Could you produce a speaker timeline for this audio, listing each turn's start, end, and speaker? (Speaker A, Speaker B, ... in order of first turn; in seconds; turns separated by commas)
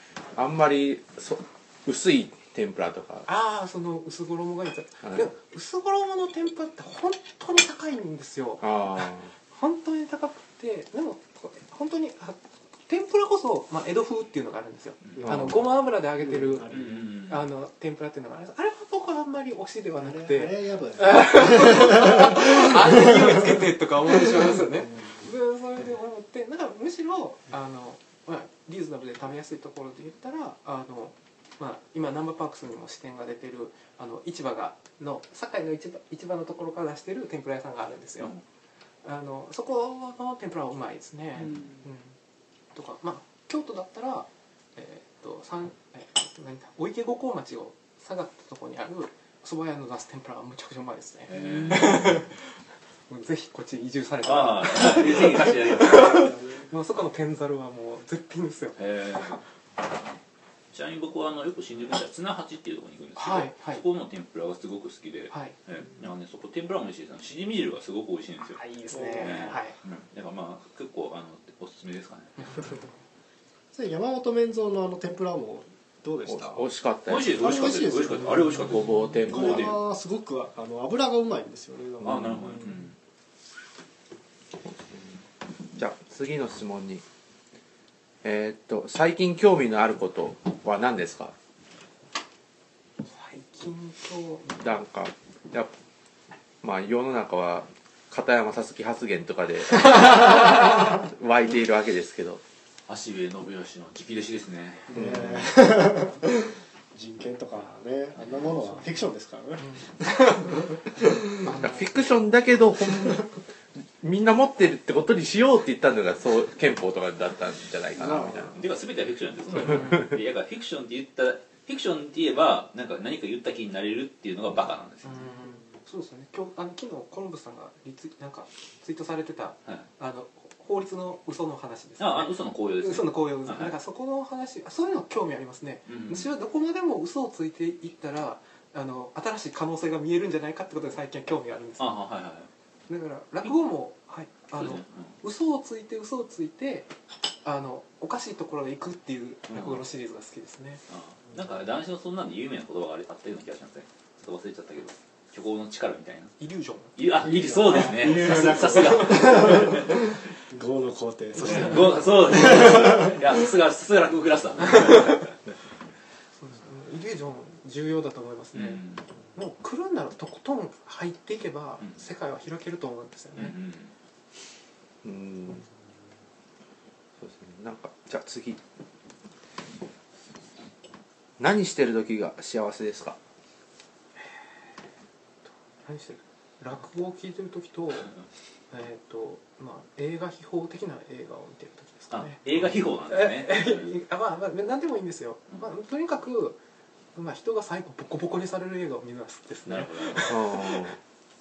Speaker A: 0.3-3.3, Speaker B: 3.3-16.7, Speaker A: 8.6-9.3, Speaker C: 15.0-15.4, Speaker D: 15.2-17.2, Speaker C: 16.7-17.5, Speaker B: 17.2-38.3, Speaker D: 19.9-23.6, Speaker D: 24.2-25.3, Speaker B: 39.0-42.1, Speaker B: 42.7-52.5, Speaker C: 51.3-52.2, Speaker D: 51.3-51.8, Speaker B: 53.1-59.4, Speaker C: 54.2-56.3, Speaker D: 55.9-56.7, Speaker C: 58.8-59.4, Speaker C: 60.7-72.6, Speaker B: 63.1-63.8, Speaker B: 65.3-65.6, Speaker B: 68.6-69.8, Speaker D: 68.8-69.6, Speaker B: 72.4-72.7, Speaker D: 73.7-76.7, Speaker A: 76.2-77.4, Speaker C: 77.1-79.8, Speaker D: 77.2-82.8, Speaker A: 78.6-79.7, Speaker A: 82.0-82.4, Speaker C: 82.0-82.9, Speaker A: 85.8-87.0, Speaker A: 88.2-91.3, Speaker B: 93.0-94.7, Speaker A: 94.6-95.7, Speaker A: 96.6-102.4, Speaker C: 102.9-104.9, Speaker D: 104.9-110.7, Speaker A: 104.9-105.4, Speaker B: 109.6-110.7, Speaker B: 111.4-111.9, Speaker A: 111.6-113.3, Speaker A: 114.0-118.5, Speaker D: 117.9-118.6, Speaker C: 118.5-125.2, Speaker B: 125.0-141.9, Speaker C: 132.0-133.7, Speaker C: 135.9-136.3, Speaker C: 141.8-142.5, Speaker B: 142.9-146.9, Speaker C: 144.5-145.1, Speaker B: 147.4-150.8, Speaker C: 149.5-149.8, Speaker C: 150.9-156.3, Speaker B: 156.4-157.0, Speaker C: 156.9-159.9, Speaker D: 157.2-163.3, Speaker B: 157.7-159.2, Speaker C: 161.4-165.3, Speaker B: 166.3-168.8, Speaker C: 168.5-169.0, Speaker B: 169.3-173.6, Speaker C: 173.3-173.9, Speaker A: 175.0-175.7, Speaker A: 177.2-178.6, Speaker A: 181.4-183.2, Speaker B: 185.4-188.1, Speaker B: 188.7-192.4, Speaker C: 192.1-193.9, Speaker B: 193.1-196.6, Speaker B: 197.1-200.8, Speaker C: 199.7-200.3, Speaker A: 200.2-201.0